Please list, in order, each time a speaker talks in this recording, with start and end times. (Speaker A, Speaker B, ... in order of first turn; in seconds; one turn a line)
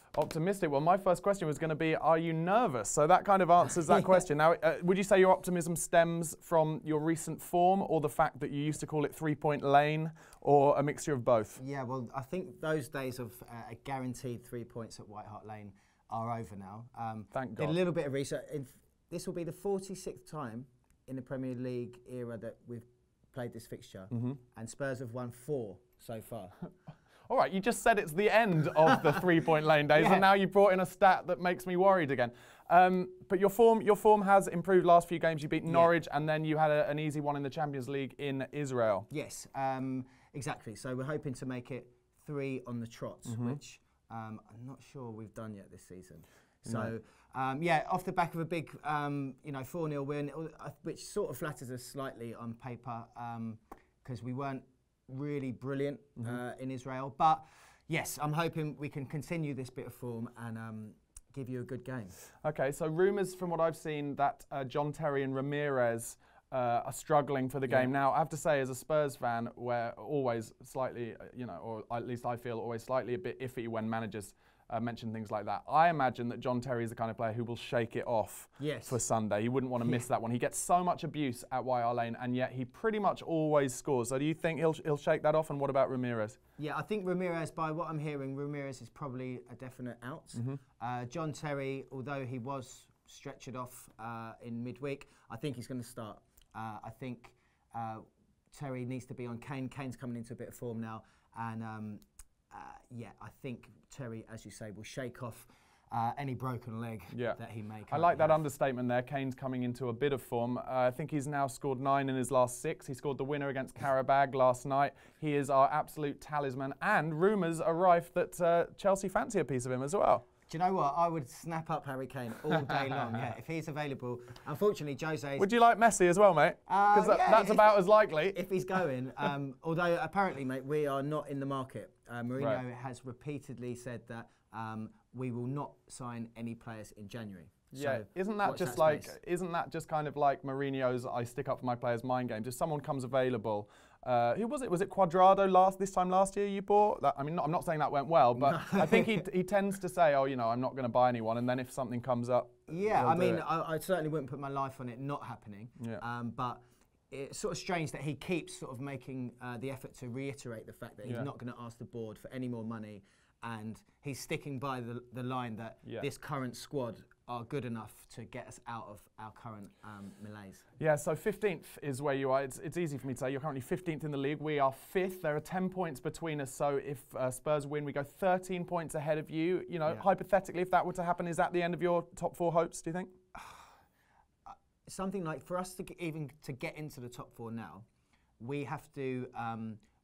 Speaker A: 0.1-11.6
Speaker B: 11.6-26.6
Speaker A: 17.3-17.8
Speaker A: 24.1-24.4
Speaker A: 27.3-39.1
Speaker B: 28.8-29.2
Speaker B: 29.9-30.3
Speaker B: 39.1-62.2
Speaker A: 43.2-43.6
Speaker A: 46.6-46.9
Speaker A: 62.4-86.4
Speaker B: 78.6-79.0
Speaker B: 79.8-80.1
Speaker B: 86.6-108.4
Speaker A: 107.1-120.2
Speaker B: 120.5-125.5
Speaker A: 125.4-128.4
Speaker B: 126.7-139.1
Speaker A: 137.7-153.4
Speaker B: 148.4-149.2
Speaker B: 152.7-170.6
Speaker A: 170.8-183.1
Speaker B: 183.3-183.7
Speaker B: 184.4-187.8
Speaker B: 188.4-189.8